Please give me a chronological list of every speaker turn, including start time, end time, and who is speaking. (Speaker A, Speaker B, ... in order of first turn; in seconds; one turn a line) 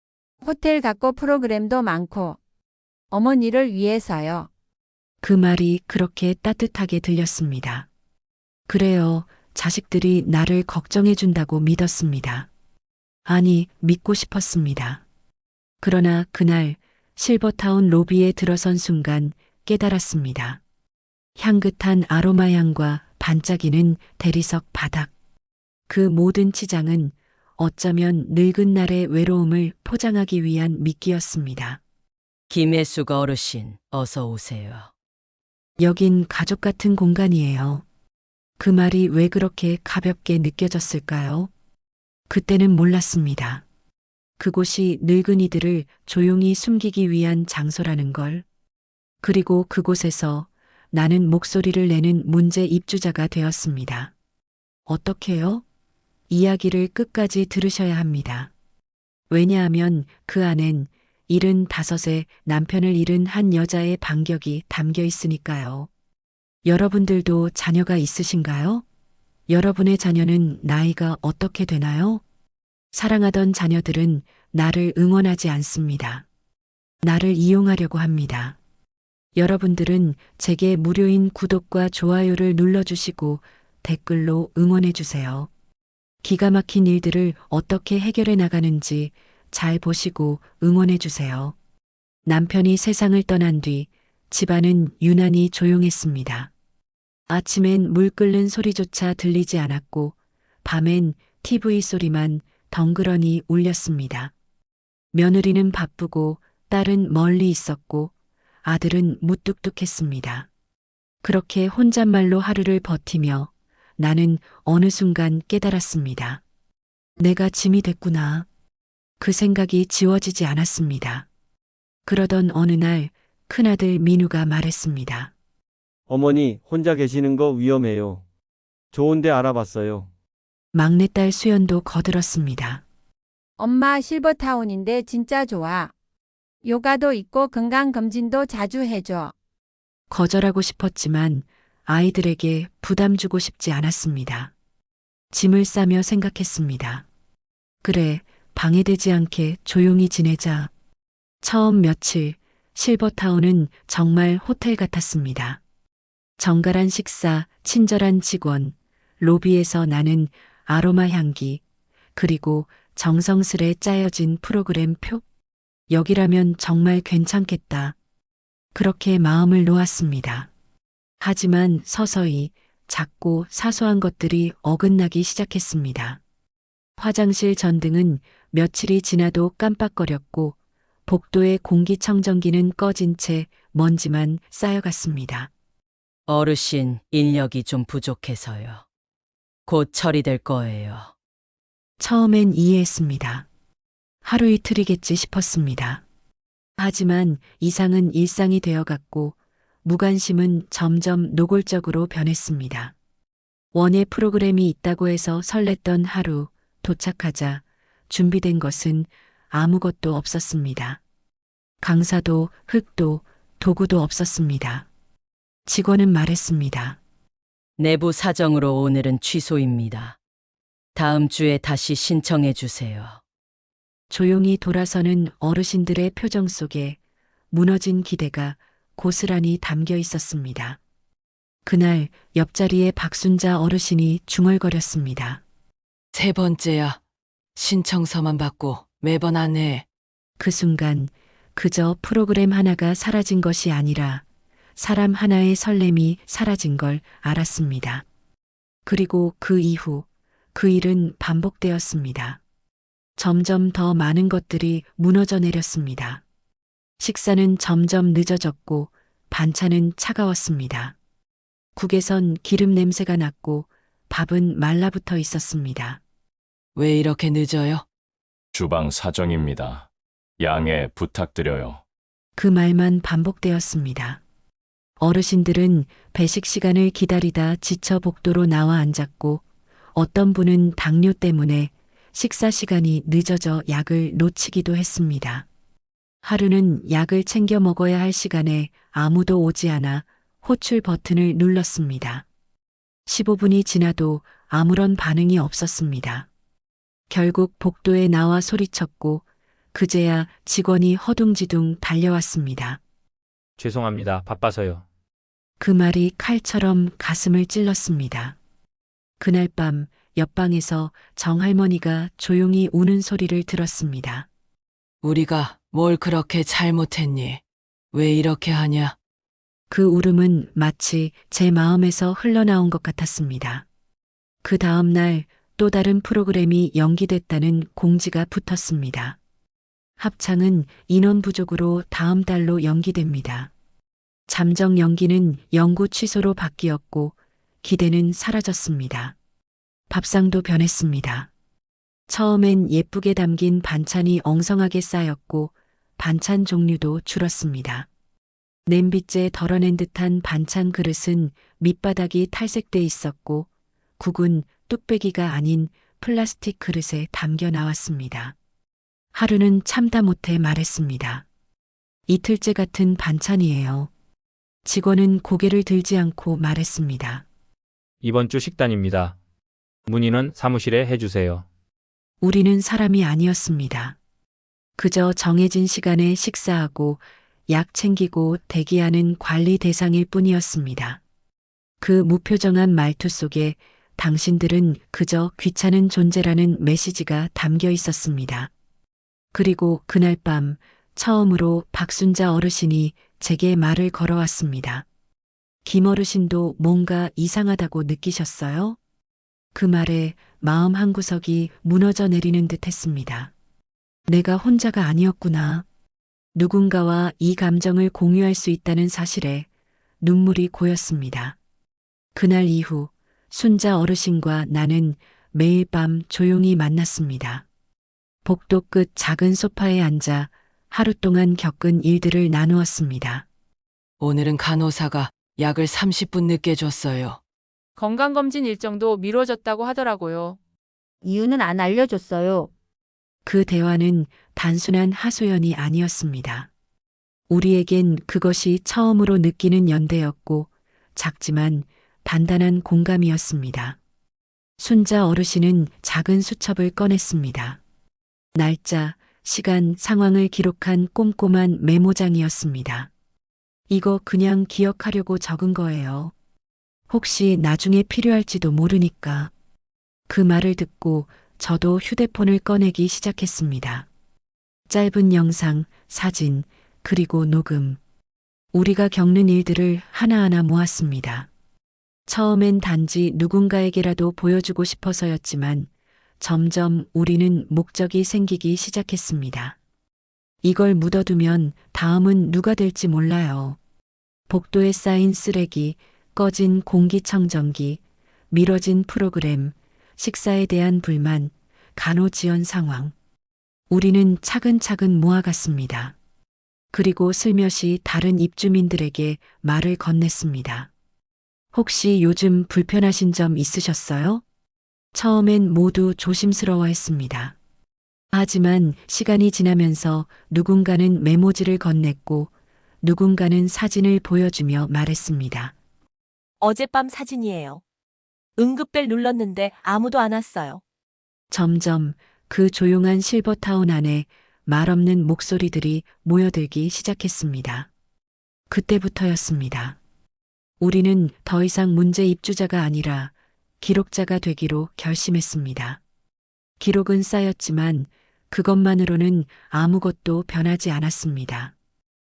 Speaker A: 0.4-2.4
Speaker A: 3.1-4.5
Speaker B: 5.2-7.9
Speaker B: 8.7-12.5
Speaker B: 13.2-15.0
Speaker B: 15.8-20.6
Speaker B: 21.4-25.1
Speaker B: 25.9-31.8
Speaker C: 32.5-34.9
Speaker B: 35.8-37.8
Speaker B: 38.6-41.5
Speaker B: 42.3-43.6
Speaker B: 44.4-48.4
Speaker B: 49.2-54.1
Speaker B: 54.9-55.6
Speaker B: 56.3-58.5
Speaker B: 59.3-65.9
Speaker B: 66.6-68.8
Speaker B: 69.5-72.2
Speaker B: 72.9-76.2
Speaker B: 77.0-78.6
Speaker B: 79.3-85.5
Speaker B: 86.2-91.5
Speaker B: 92.2-96.5
Speaker B: 97.3-104.3
Speaker B: 105.1-108.1
Speaker B: 108.6-110.5
Speaker B: 111.2-116.4
Speaker B: 117.2-118.5
Speaker B: 119.2-121.3
Speaker B: 122.0-125.3
Speaker D: 126.1-128.2
Speaker D: 128.9-130.1
Speaker B: 130.7-132.8
Speaker A: 133.6-135.9
Speaker A: 136.6-139.3
Speaker B: 140.1-144.5
Speaker B: 145.3-147.0
Speaker B: 147.8-150.7
Speaker B: 151.4-155.6
Speaker B: 156.4-161.6
Speaker B: 162.1-165.2
Speaker B: 165.9-167.9
Speaker B: 168.7-170.5
Speaker B: 171.2-176.2
Speaker B: 177.0-185.5
Speaker C: 186.3-188.8
Speaker C: 189.7-191.1
Speaker B: 192.0-193.4
Speaker B: 194.2-196.0
Speaker B: 196.8-202.9
Speaker B: 203.7-211.0
Speaker B: 211.8-214.9
Speaker B: 215.7-217.0
Speaker C: 217.8-220.2
Speaker C: 220.9-223.2
Speaker B: 224.1-227.0
Speaker B: 227.5-230.8
Speaker B: 231.7-235.4
Speaker E: 236.1-237.0
Speaker E: 237.6-239.8
Speaker B: 240.4-244.2
Speaker B: 244.8-248.0
Speaker B: 248.8-252.4
Speaker B: 253.2-256.2
Speaker B: 257.0-260.9
Speaker B: 261.8-266.0
Speaker E: 266.8-267.8
Speaker F: 268.5-271.8
Speaker B: 272.4-274.2
Speaker B: 275.0-279.4
Speaker B: 279.9-285.4
Speaker B: 286.2-292.2
Speaker B: 293.1-296.3
Speaker B: 297.1-302.8
Speaker G: 303.6-304.8
Speaker B: 305.6-308.4
Speaker B: 309.2-314.3
Speaker E: 315.0-317.4
Speaker E: 317.9-318.9
Speaker B: 319.7-323.6
Speaker B: 324.4-329.2
Speaker B: 330.0-333.5
Speaker B: 334.3-339.1
Speaker B: 339.9-341.3
Speaker B: 342.1-347.9
Speaker B: 348.7-353.5
Speaker B: 354.0-358.3
Speaker B: 359.1-361.2
Speaker B: 362.1-363.9
Speaker B: 364.6-367.2
Speaker G: 368.0-369.2
Speaker G: 369.9-371.4
Speaker B: 372.2-374.0
Speaker B: 374.8-381.0
Speaker B: 381.8-388.5
Speaker B: 389.3-394.9
Speaker B: 395.6-398.8
Speaker B: 399.5-403.3
Speaker B: 404.1-405.6
Speaker B: 406.3-409.5
Speaker B: 410.0-411.4
Speaker B: 412.1-417.4
Speaker B: 418.2-423.2
Speaker E: 424.0-427.2
Speaker H: 427.8-430.4
Speaker A: 431.0-432.5
Speaker B: 433.2-436.5
Speaker B: 437.3-443.8
Speaker B: 444.6-447.6
Speaker B: 448.3-452.9
Speaker B: 453.7-456.1
Speaker B: 456.9-459.3
Speaker B: 460.1-463.9
Speaker B: 464.7-467.8
Speaker B: 468.5-471.3
Speaker B: 472.1-475.7
Speaker B: 476.2-479.6
Speaker B: 480.4-483.6
Speaker B: 484.3-487.8
Speaker B: 488.3-492.9
Speaker B: 493.7-495.9
Speaker B: 496.7-500.7
Speaker B: 501.5-504.2
Speaker B: 504.9-507.3
Speaker B: 508.1-512.3
Speaker B: 512.8-515.5
Speaker I: 516.4-517.6
Speaker I: 518.4-520.6
Speaker B: 521.3-527.7
Speaker B: 528.5-529.8
Speaker B: 530.6-535.8
Speaker B: 536.6-541.5